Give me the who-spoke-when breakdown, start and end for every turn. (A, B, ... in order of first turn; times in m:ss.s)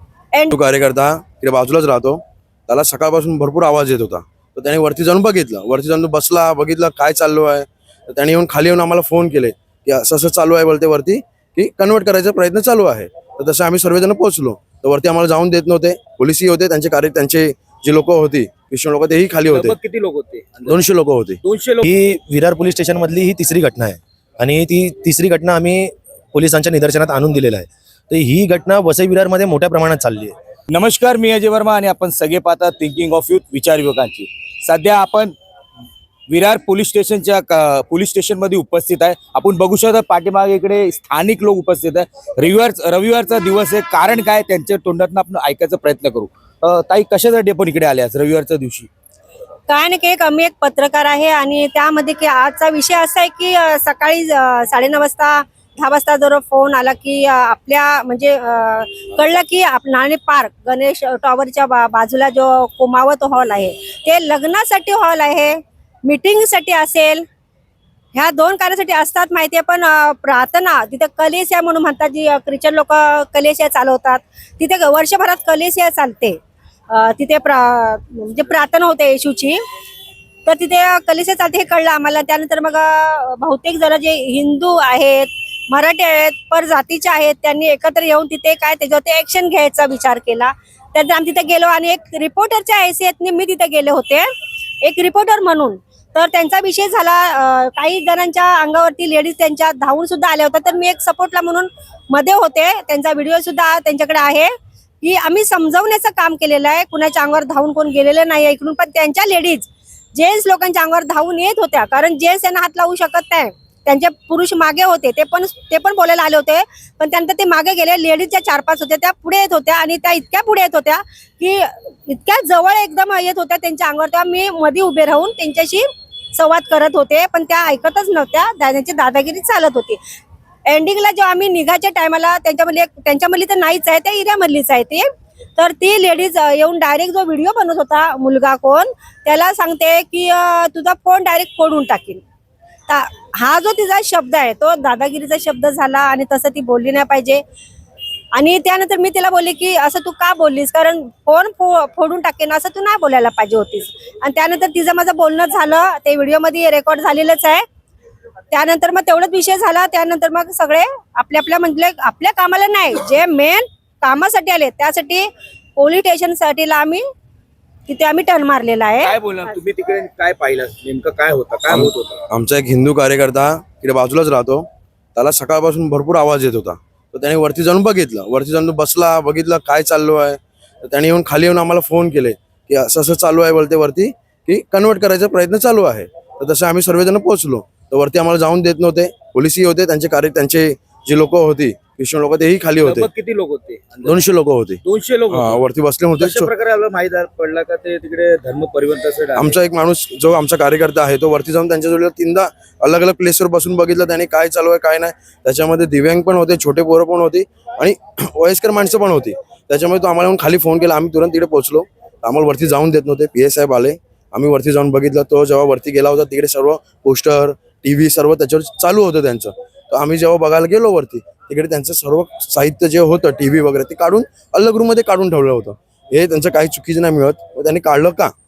0:00.5-0:19.8 A
0:19.5-0:20.8 B
0:20.7-0:21.4 A
0:21.4-0:21.9 B
0:21.8-0:30.4 C
0:30.7-0:35.4 B
0:36.3-0:48.9 B
0:49.7-1:07.3 D
1:08.1-1:16.4 D
1:16.9-1:19.6 D
1:20.5-1:34.3 D
1:34.8-2:10.0 D
2:10.7-2:22.2 D
2:22.9-2:27.4 D
2:28.3-2:37.6 D
2:38.5-2:47.0 D
2:47.9-2:49.2 D
2:49.0-2:52.2 B
2:51.7-3:13.1 A
3:12.8-3:14.2 B
3:14.0-3:16.5 A
3:14.8-3:15.6 B
3:16.2-3:19.6 B
3:19.4-3:48.3 A